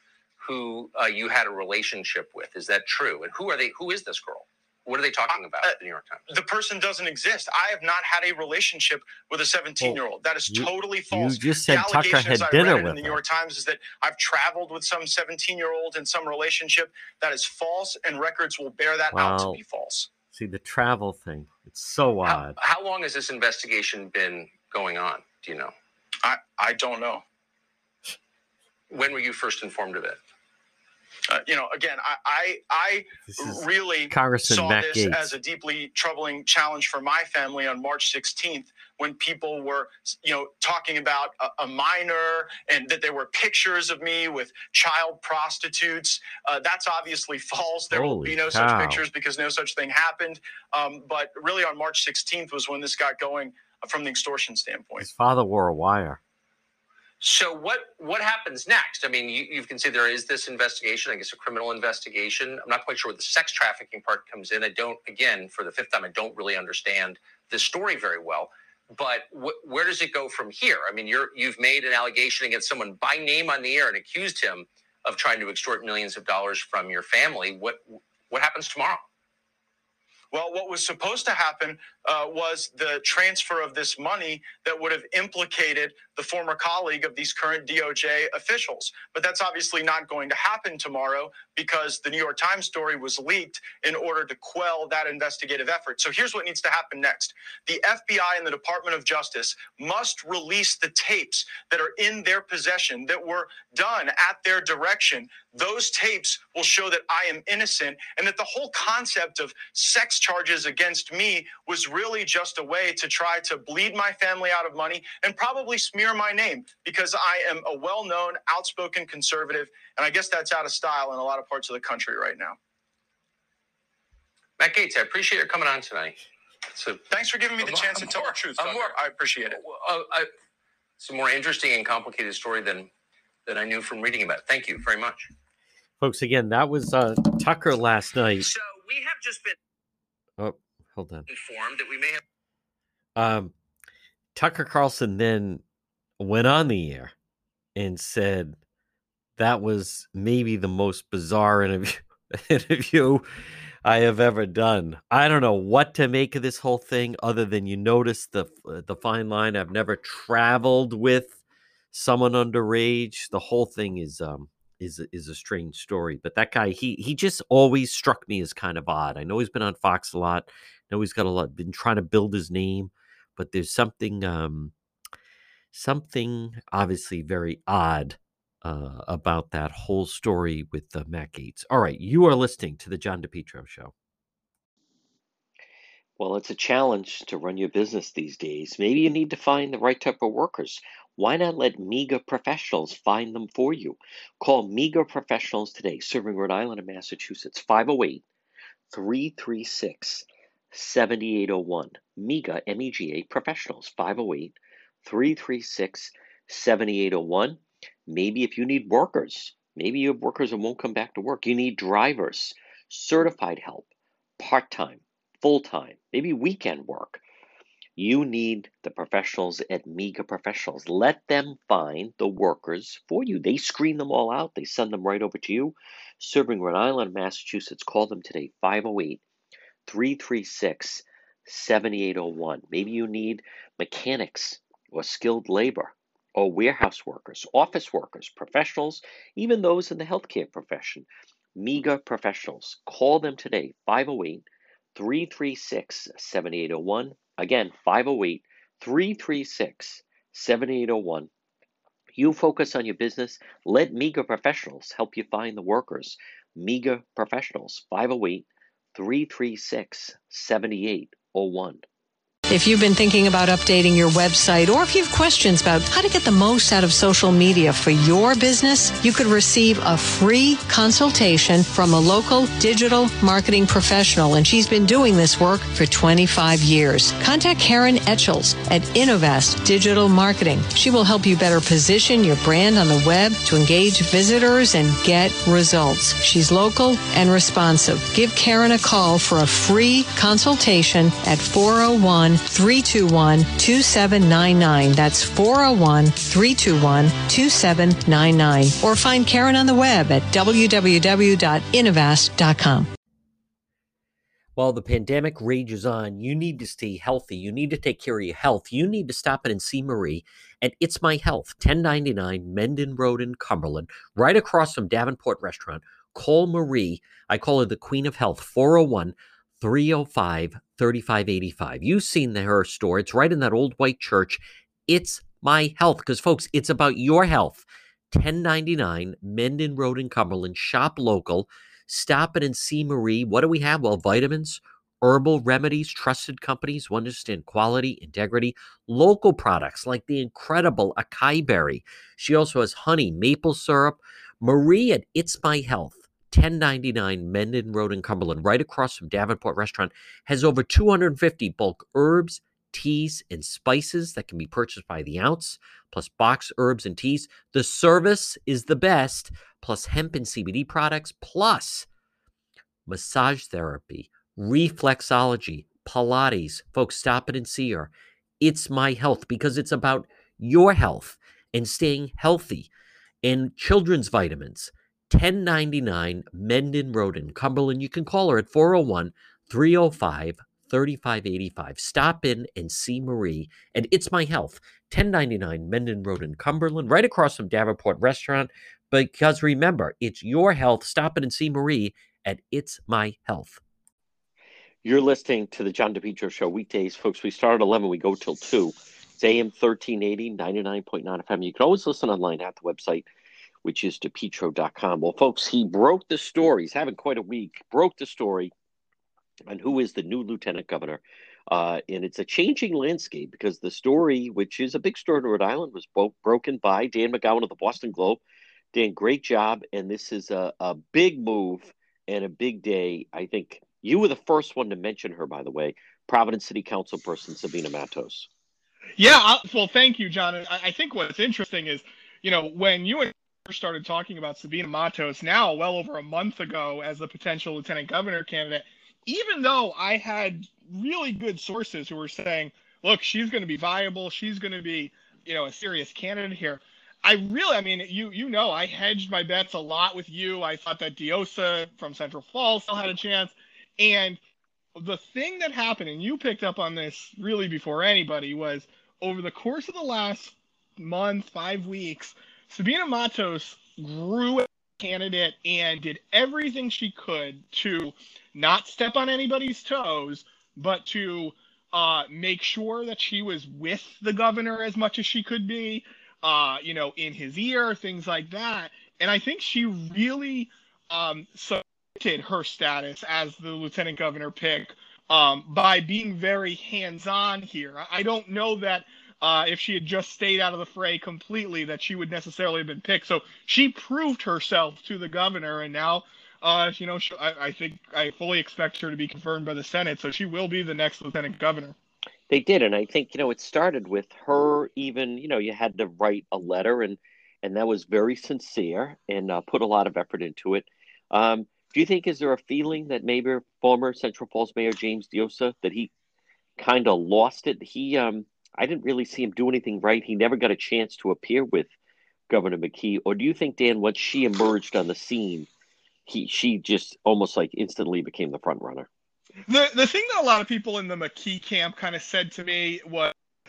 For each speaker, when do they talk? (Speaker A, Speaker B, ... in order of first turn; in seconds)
Speaker A: 0.4-6.2, 22.2-25.7, 28.9-30.2, 57.2-79.0, 124.6-126.2, 126.7-127.0, 127.6-128.9, 129.5-130.3, 131.0-132.9, 133.4-135.3, 138.4-139.6, 141.3-142.2
Speaker B: 6.3-20.1, 26.2-27.2, 31.3-55.1, 80.3-122.6, 127.1-129.6
Speaker C: 9.8-13.2, 19.1-19.6, 20.3-22.6, 33.3-35.3, 47.9-49.0, 55.0-56.2, 136.0-138.5, 140.4-141.2, 143.2-143.5, 144.3-145.6, 146.2-147.1, 147.8-148.6, 149.4-153.2, 153.8-161.4, 161.9-174.7, 175.7-183.9, 186.2-198.2, 198.9-213.9, 214.4-217.2, 217.9-229.2, 229.8-251.3, 252.1-261.8, 304.6-361.9, 362.9-372.7, 373.2-393.6, 394.8-403.1, 403.6-408.5, 409.4-418.2, 418.7-428.3, 502.3-515.9, 516.6-521.7, 522.3-525.5, 526.0-528.9
Speaker D: 262.5-302.9
Speaker E: 429.0-454.2, 454.8-501.7, 529.5-533.1